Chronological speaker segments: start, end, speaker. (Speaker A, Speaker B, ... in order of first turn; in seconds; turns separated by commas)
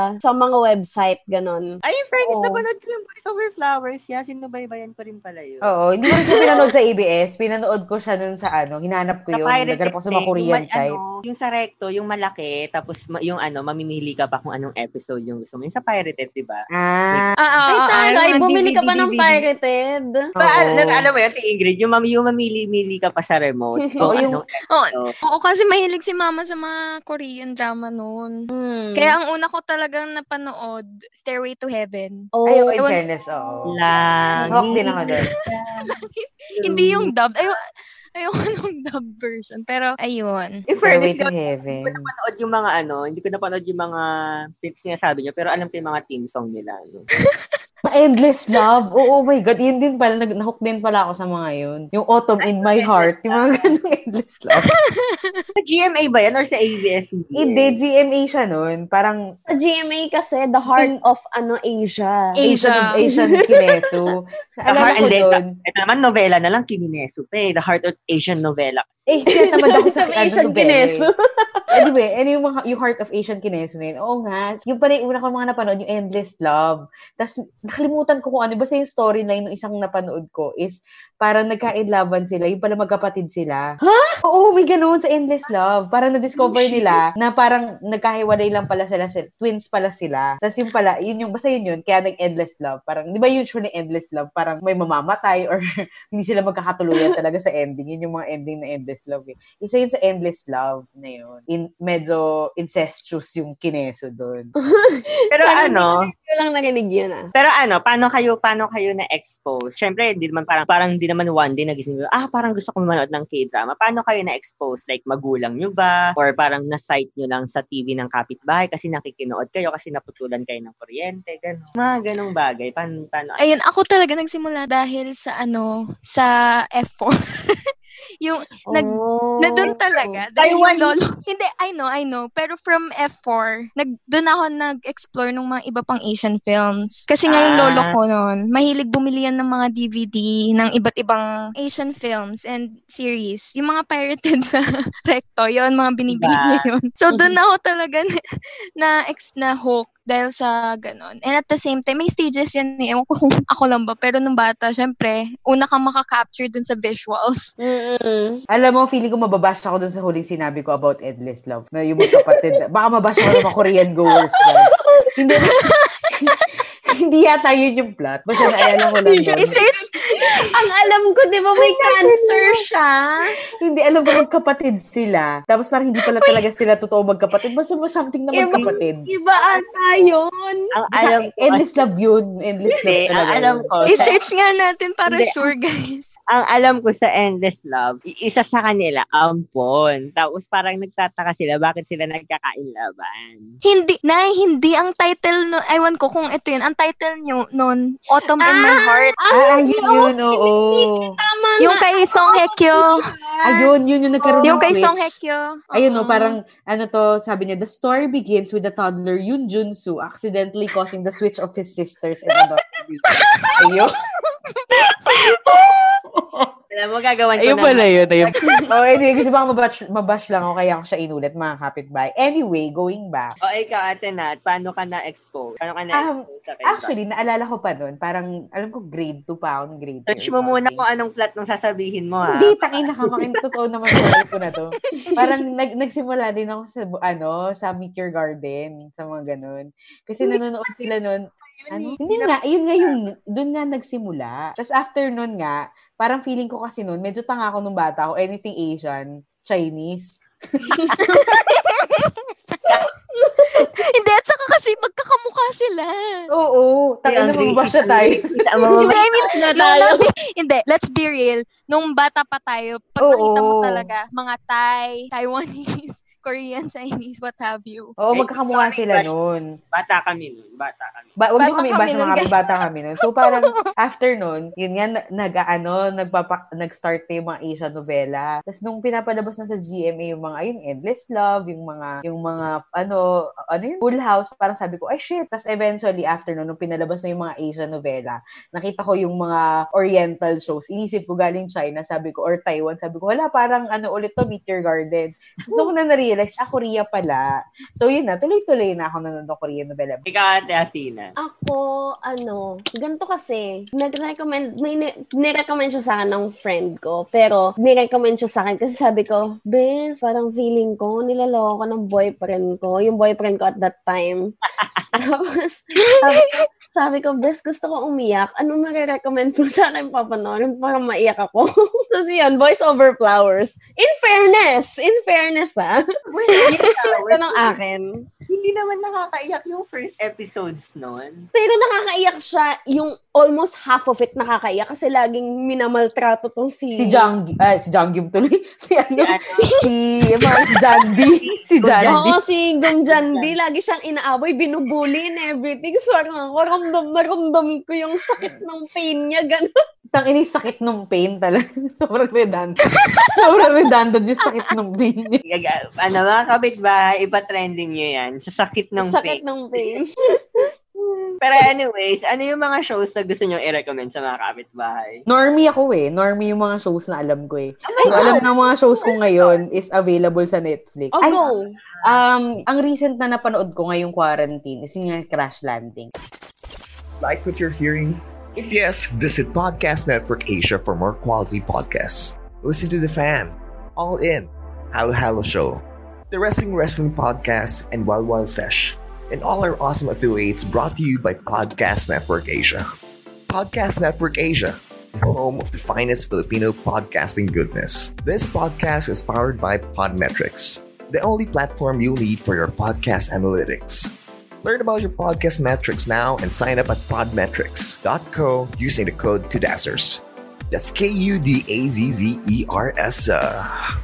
Speaker A: 0.2-1.7, Speaker B: 1.9-5.7, Speaker C: 2.2-2.6, Speaker C: 5.6-11.0, Speaker B: 6.3-6.7, Speaker B: 9.3-17.3, Speaker C: 16.7-17.3, Speaker D: 17.4-19.5, Speaker A: 17.7-20.2, Speaker C: 20.4-21.1, Speaker B: 20.4-25.1, Speaker A: 23.8-24.2, Speaker C: 24.0-24.4, Speaker D: 24.6-33.0, Speaker A: 28.5-29.1, Speaker A: 32.3-32.7, Speaker C: 32.5-33.8, Speaker B: 33.7-35.9, Speaker C: 34.4-35.3, Speaker A: 34.5-34.9, Speaker D: 35.0-37.6, Speaker B: 36.6-37.1, Speaker D: 38.2-40.6, Speaker B: 40.7-44.0, Speaker C: 40.8-42.1, Speaker B: 44.6-47.1, Speaker D: 47.2-47.6, Speaker C: 47.9-54.7, Speaker B: 52.4-53.7, Speaker D: 54.5-55.4, Speaker B: 55.6-57.8, Speaker C: 57.4-59.2, Speaker A: 59.5-62.5, Speaker D: 62.4-63.0, Speaker C: 62.4-65.5, Speaker A: 63.1-63.6, Speaker B: 64.7-69.3, Speaker C: 69.1-71.0, Speaker A: 69.3-71.9, Speaker C: 71.7-83.7, Speaker A: 83.8-84.2, Speaker C: 84.2-104.5, Speaker A: 86.4-87.0, Speaker A: 104.7-107.3, Speaker B: 105.3-105.9, Speaker B: 107.3-123.4, Speaker D: 123.4-127.6, Speaker D: 128.2-148.1, Speaker A: 128.7-130.2, Speaker B: 130.4-130.9, Speaker B: 137.3-137.9, Speaker B: 146.1-147.3, Speaker D: 148.8-157.5, Speaker A: 157.6-158.4, Speaker C: 158.5-165.6, Speaker A: 162.1-162.6, Speaker D: 164.9-166.5, Speaker C: 166.9-169.7, Speaker A: 169.1-173.5, Speaker D: 169.4-170.6, Speaker C: 171.6-172.6, Speaker C: 173.6-179.1, Speaker A: 178.3-180.7, Speaker B: 178.5-178.8, Speaker B: 180.7-181.8, Speaker C: 180.9-183.7, Speaker B: 182.8-184.2, Speaker D: 183.8-186.1, Speaker B: 185.1-185.5, Speaker B: 186.3-193.5, Speaker D: 193.6-199.2, Speaker A: 198.4-204.7, Speaker C: 199.3-201.1, Speaker D: 201.6-203.1, Speaker C: 203.4-205.1, Speaker D: 204.4-206.4, Speaker C: 205.7-212.6, Speaker D: 213.2-213.6, Speaker C: 213.6-213.9, Speaker C: 215.2-215.6, Speaker C: 216.2-216.5, Speaker B: 216.7-218.4, Speaker C: 217.4-223.4, Speaker B: 223.4-226.9, Speaker C: 225.9-230.8, Speaker B: 230.1-232.8, Speaker C: 232.3-250.9, Speaker D: 234.8-235.1, Speaker B: 241.5-242.9, Speaker D: 251.0-252.3, Speaker A: 253.1-253.5, Speaker D: 253.5-256.3, Speaker C: 256.3-258.7, Speaker B: 257.1-259.7, Speaker A: 258.6-260.0, Speaker D: 258.7-267.9, Speaker C: 263.0-263.9, Speaker C: 268.0-269.5, Speaker B: 268.1-269.1, Speaker B: 269.7-271.1, Speaker C: 271.2-297.2, Speaker D: 271.4-273.6, Speaker C: 297.8-300.1, Speaker B: 300.1-301.1, Speaker A: 301.2-314.4, Speaker A: 314.9-325.8, Speaker D: 315.8-316.5, Speaker B: 326.1-327.6, Speaker A: 326.3-328.1, Speaker B: 328.3-331.3, Speaker A: 331.3-337.1, Speaker C: 336.7-342.1, Speaker B: 339.0-339.4, Speaker B: 340.9-342.2, Speaker A: 341.8-349.5, Speaker B: 342.9-343.4, Speaker C: 349.9-352.6, Speaker D: 352.7-353.2, Speaker C: 353.2-355.2, Speaker B: 355.3-359.8, Speaker A: 358.8-360.4, Speaker B: 361.2-365.0, Speaker C: 365.1-371.2, Speaker B: 367.7-368.3, Speaker A: 367.8-368.9, Speaker B: 369.0-369.4, Speaker A: 371.0-371.6, Speaker B: 371.2-372.0, Speaker C: 371.8-375.9, Speaker E: 377.0-392.6, Speaker E: 393.3-403.9, Speaker E: 404.4-413.5